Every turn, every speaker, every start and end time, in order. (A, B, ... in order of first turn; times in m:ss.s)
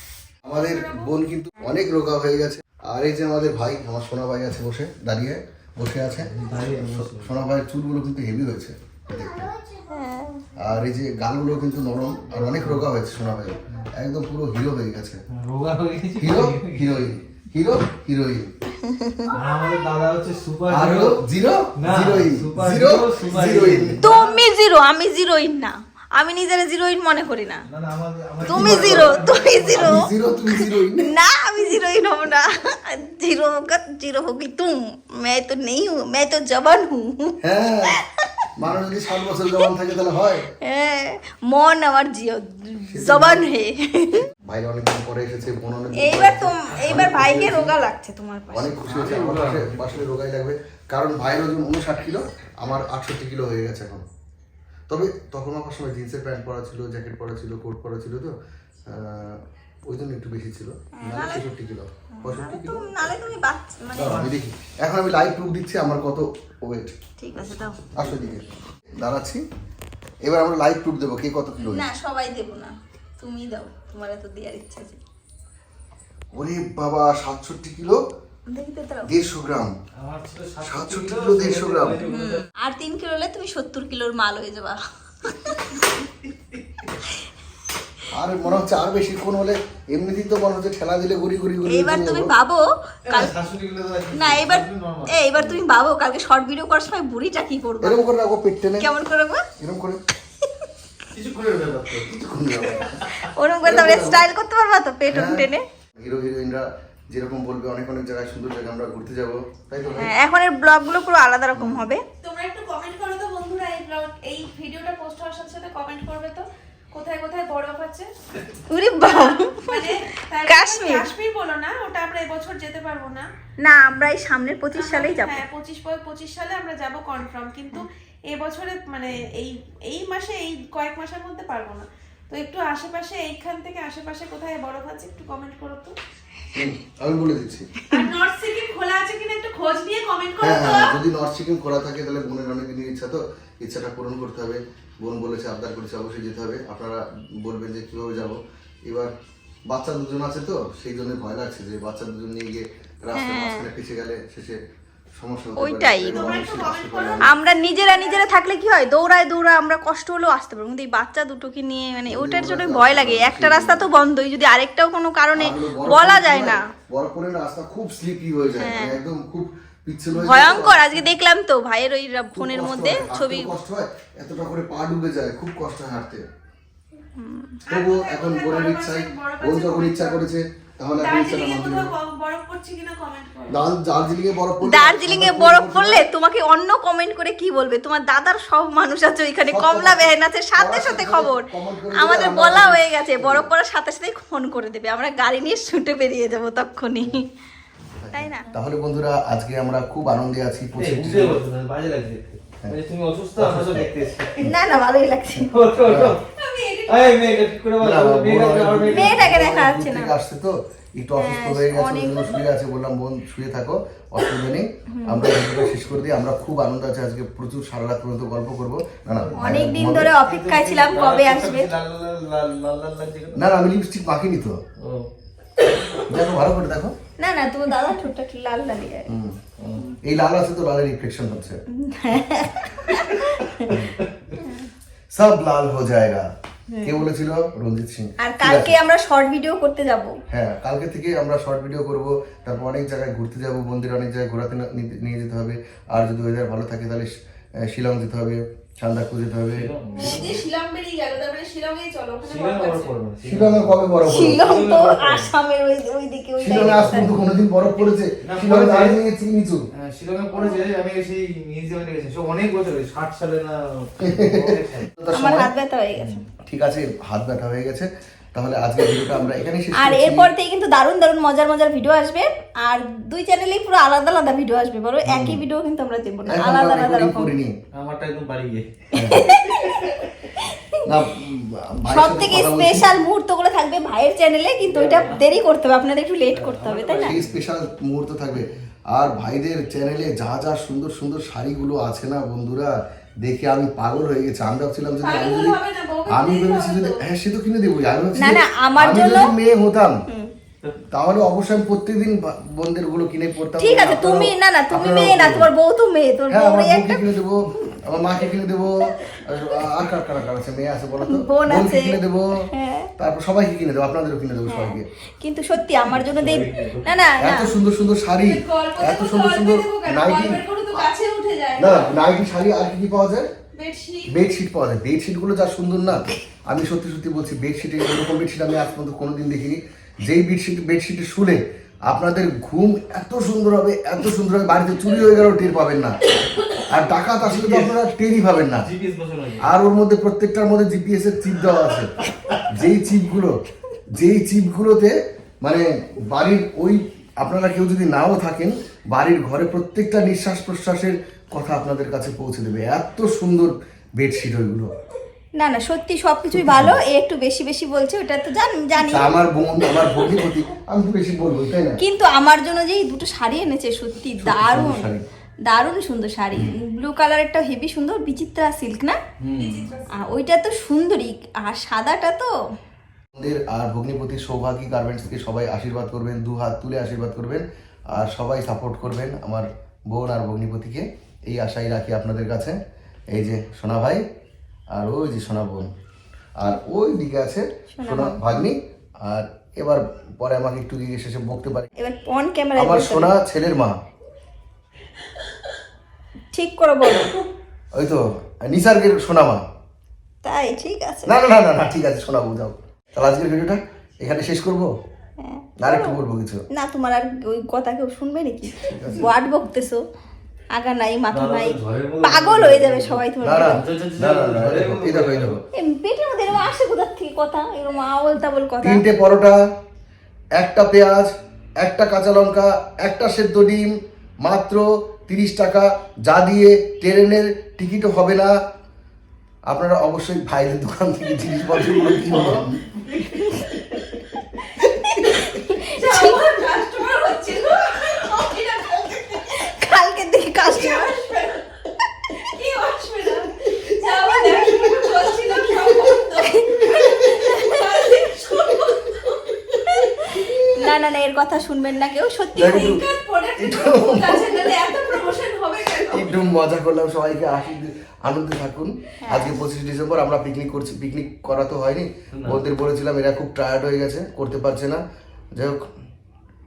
0:00.4-0:09.5 A
0:00.6-0:01.0 B
0:06.2-0:07.3 C
0:09.9-0:10.4 D
0:10.6-0:15.2 A
0:15.3-0:17.1 C
0:16.2-0:18.5 A
0:18.9-0:19.4 D
0:19.3-0:21.2 C
0:20.7-0:24.0 A
0:21.8-0:24.4 C
0:24.0-0:27.6 D
0:27.7-0:30.1 C
0:28.4-0:31.1 A
0:28.4-0:37.4 D
0:37.4-0:38.0 A
0:37.9-0:38.5 D
0:38.6-0:40.5 A
0:40.6-0:44.3 D
0:42.9-0:43.5 A
0:44.4-0:47.7 A
0:46.0-0:49.1 D
0:48.5-0:54.0 A
0:48.9-0:50.0 C
0:54.9-0:58.3 A
0:58.9-1:02.8 A
1:01.0-1:01.4 D
1:02.1-1:04.3 D
1:04.0-1:06.9 A
1:04.0-1:04.4 C
1:07.2-1:07.8 D
1:08.0-1:09.4 A
1:10.2-1:11.8 A
1:11.6-1:15.0 D
1:16.3-1:18.0 A
1:18.5-1:19.1 D
1:19.1-1:19.7 A
1:20.0-1:22.5 C
1:20.6-1:22.0 A
1:22.1-1:25.8 D
1:28.1-1:32.3 A
1:31.7-1:33.3 D
1:33.1-1:35.2 C
1:34.1-1:38.0 D
1:37.8-1:38.9 A
1:38.8-1:39.4 D
1:39.6-1:40.0 A
1:41.1-1:42.1 C
1:42.0-1:43.0 A
1:43.0-1:45.6 D
1:43.6-1:44.2 A
1:45.1-1:45.5 A
1:46.0-1:50.1 A
1:49.9-1:52.0 D
1:51.5-1:51.8 A
1:52.2-1:58.1 B
1:58.7-2:01.1 D
1:59.0-2:03.3 B
2:03.6-2:05.4 D
2:04.7-2:15.9 B
2:16.5-2:17.7 A
2:17.9-2:21.0 B
2:20.4-2:29.1 A
2:29.7-2:34.6 A
2:33.1-2:33.7 D
2:35.2-2:37.3 A
2:35.6-2:36.4 D
2:36.1-2:38.4 B
2:37.2-2:46.6 D
2:42.1-2:43.9 A
2:45.3-2:51.0 A
2:48.6-2:49.0 D
2:50.1-2:53.5 D
2:52.3-2:56.2 A
2:57.1-2:57.6 D
2:57.6-3:00.2 B
2:57.7-3:01.9 A
3:01.0-3:03.6 B
3:03.5-3:06.0 A
3:04.6-3:17.2 D
3:09.5-3:13.5 A
3:18.0-3:21.4 A
3:18.1-3:18.5 D
3:20.7-3:24.5 C
3:23.4-3:23.9 A
3:24.4-3:25.5 D
3:25.5-3:26.2 C
3:25.8-3:26.1 A
3:26.4-3:27.5 B
3:26.9-3:29.3 C
3:27.8-3:40.1 A
3:28.9-3:30.1 D
3:31.2-3:32.4 D
3:34.9-3:35.7 D
3:39.1-3:43.4 C
3:39.4-3:41.7 D
3:43.3-3:44.6 A
3:44.8-3:45.1 C
3:46.1-3:47.0 A
3:47.2-3:49.1 D
3:49.1-3:49.4 A
3:49.6-3:49.9 C
3:50.0-3:51.6 A
3:51.7-3:53.7 D
3:53.6-3:54.4 C
3:53.7-3:54.0 A
3:54.4-3:54.7 D
3:55.1-3:56.3 A
3:56.7-3:57.0 D
3:56.8-3:58.8 A
3:58.2-4:00.1 D
4:00.3-4:07.1 A
4:07.7-4:09.7 A
4:09.5-4:10.4 C
4:10.0-4:12.9 B
4:12.2-4:15.3 C
4:13.2-4:14.5 A
4:14.0-4:17.1 D
4:16.4-4:19.6 A
4:16.5-4:17.2 C
4:18.2-4:19.0 C
4:19.7-4:24.9 C
4:24.0-4:25.5 A
4:25.1-4:26.2 D
4:26.4-4:30.3 A
4:29.8-4:37.3 D
4:35.0-4:35.4 A
4:36.3-4:37.5 A
4:37.7-4:39.9 C
4:38.9-4:39.2 A
4:39.0-4:40.8 D
4:40.8-4:42.9 A
4:41.9-4:47.2 D
4:44.6-4:45.2 C
4:46.3-4:47.4 C
4:47.0-5:00.0 A
4:55.0-4:57.0 B
4:58.2-4:59.3 D
5:00.9-5:05.5 A
5:03.6-5:07.7 D
5:06.3-5:12.3 A
5:09.1-5:09.5 D
5:11.1-5:12.9 D
5:13.0-5:14.9 A
5:14.5-5:17.5 D
5:15.8-5:17.0 C
5:17.2-5:20.9 A
5:18.2-5:21.9 B
5:21.6-5:23.3 A
5:23.5-5:24.1 B
5:24.1-5:36.0 A
5:36.7-5:38.7 A
5:37.2-5:37.7 C
5:38.5-5:39.5 C
5:39.4-5:41.9 A
5:42.2-5:42.6 C
5:42.5-5:43.3 A
5:44.0-5:54.7 A
5:55.4-5:59.1 D
5:56.4-5:56.8 A
5:58.9-6:01.8 A
5:59.8-6:00.0 D
6:01.8-6:04.8 D
6:04.2-6:05.0 A
6:05.4-6:09.0 D
6:09.2-6:09.5 C
6:09.3-6:10.0 B
6:09.9-6:12.3 D
6:13.1-6:22.6 A
6:23.1-6:24.0 A
6:24.7-6:25.7 A
6:26.4-6:31.7 A
6:27.7-6:28.4 D
6:31.8-6:33.1 D
6:32.6-6:33.7 A
6:36.3-6:37.2 D
6:37.7-6:39.4 A
6:40.2-6:41.1 D
6:41.0-6:44.7 A
6:45.2-6:46.0 D
6:45.6-6:46.4 A
6:46.5-6:49.8 D
6:48.5-6:49.1 A
6:50.5-6:53.6 D
6:51.1-6:55.4 C
6:53.2-6:55.4 A
6:55.5-6:58.8 D
6:58.6-6:59.4 A
7:00.4-7:08.3 A
7:09.5-7:12.5 A
7:12.0-7:12.4 C
7:13.1-7:13.6 D
7:14.8-7:16.2 D
7:15.7-7:19.4 B
7:19.4-7:21.0 D
7:20.5-7:21.5 B
7:22.2-7:30.0 B
7:23.7-7:24.7 D
7:25.3-7:27.6 D
7:29.6-7:32.8 D
7:30.2-7:30.5 A
7:32.3-7:32.8 A
7:32.4-7:36.3 B
7:33.4-7:34.7 A
7:35.9-7:44.8 A
7:39.0-7:39.4 D
7:42.1-7:42.4 C
7:45.3-7:45.6 A